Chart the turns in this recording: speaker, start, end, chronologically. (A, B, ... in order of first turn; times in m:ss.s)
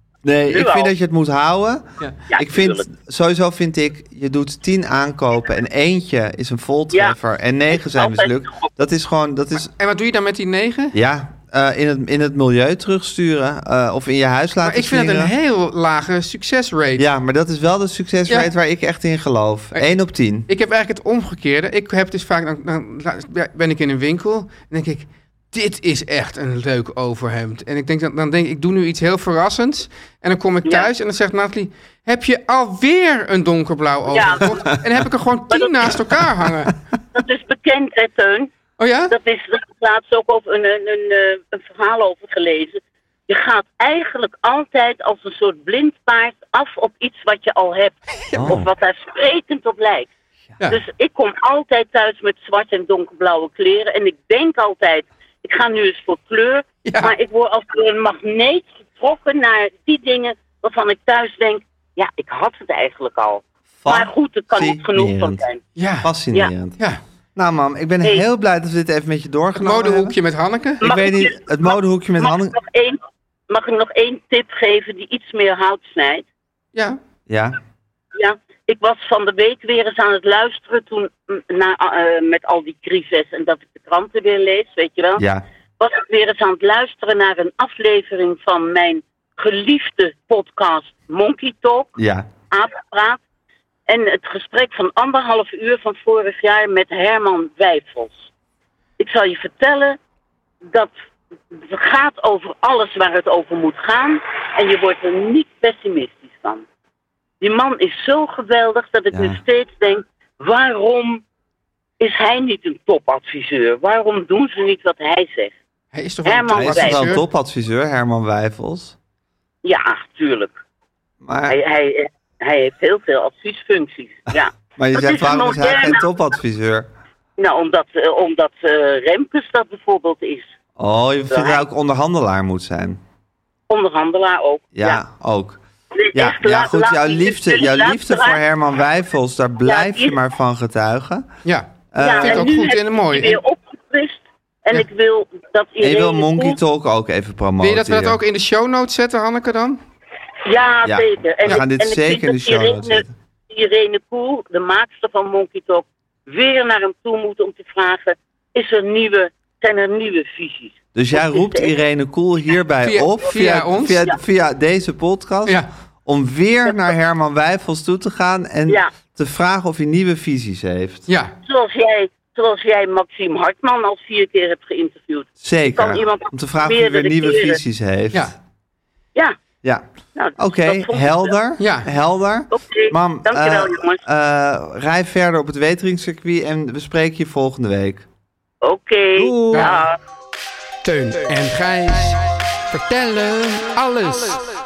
0:00.2-0:09.7 A
0:00.5-0:00.9 B
0:02.3-0:02.8 B
0:06.9-0:07.2 B
0:07.7-0:08.7 B
0:09.8-0:10.9 C
0:10.9-0:15.3 A
0:14.6-0:17.0 C
0:17.0-0:20.5 A
0:20.5-0:36.8 C
0:34.1-0:34.7 B
0:35.5-0:35.9 B
0:37.1-0:38.5 B
0:38.8-0:39.1 C
0:39.1-0:50.1 B
0:48.3-0:48.5 C
0:48.3-0:48.7 A
0:50.7-1:05.6 B
0:56.8-0:57.1 C
1:03.8-1:05.4 A
1:05.8-1:06.1 C
1:06.0-1:06.8 A
1:07.4-1:10.2 A
1:09.5-1:10.8 C
1:10.8-1:12.5 A
1:10.8-1:16.2 B
1:17.3-1:17.6 A
1:18.1-1:25.2 B
1:25.2-1:25.4 A
1:25.8-1:31.9 B
1:32.0-1:32.3 A
1:32.5-1:33.2 B
1:33.9-1:38.3 B
1:39.0-1:40.0 B
1:40.6-1:40.9 B
1:41.5-1:46.6 B
1:47.4-1:51.2 B
1:49.1-1:49.4 A
1:52.0-1:55.5 B
1:55.9-1:57.2 C
1:56.2-1:57.0 B
1:56.5-1:59.0 A
1:59.6-2:00.6 B
2:01.2-2:01.6 A
2:01.5-2:06.1 B
2:04.8-2:06.9 A
2:07.4-2:10.5 B
2:10.8-2:13.0 A
2:11.3-2:11.6 B
2:13.7-2:15.0 B
2:14.7-2:15.6 A
2:16.0-2:18.4 B
2:16.1-2:21.3 A
2:19.6-2:20.2 B
2:21.4-2:23.4 C
2:21.9-2:22.6 A
2:22.0-2:26.6 B
2:25.8-2:28.2 A
2:27.6-2:29.8 C
2:30.4-2:41.8 B
2:30.8-2:33.1 A
2:40.9-2:51.1 A
2:42.8-2:44.1 C
2:51.1-2:51.3 C
2:51.4-2:57.6 B
2:55.4-2:58.3 A
3:00.1-3:01.4 B
3:00.4-3:08.0 A
3:01.6-3:01.9 C
3:02.5-3:04.0 B
3:08.6-3:10.0 B
3:09.2-3:09.8 A
3:09.5-3:09.8 C
3:10.8-3:14.4 C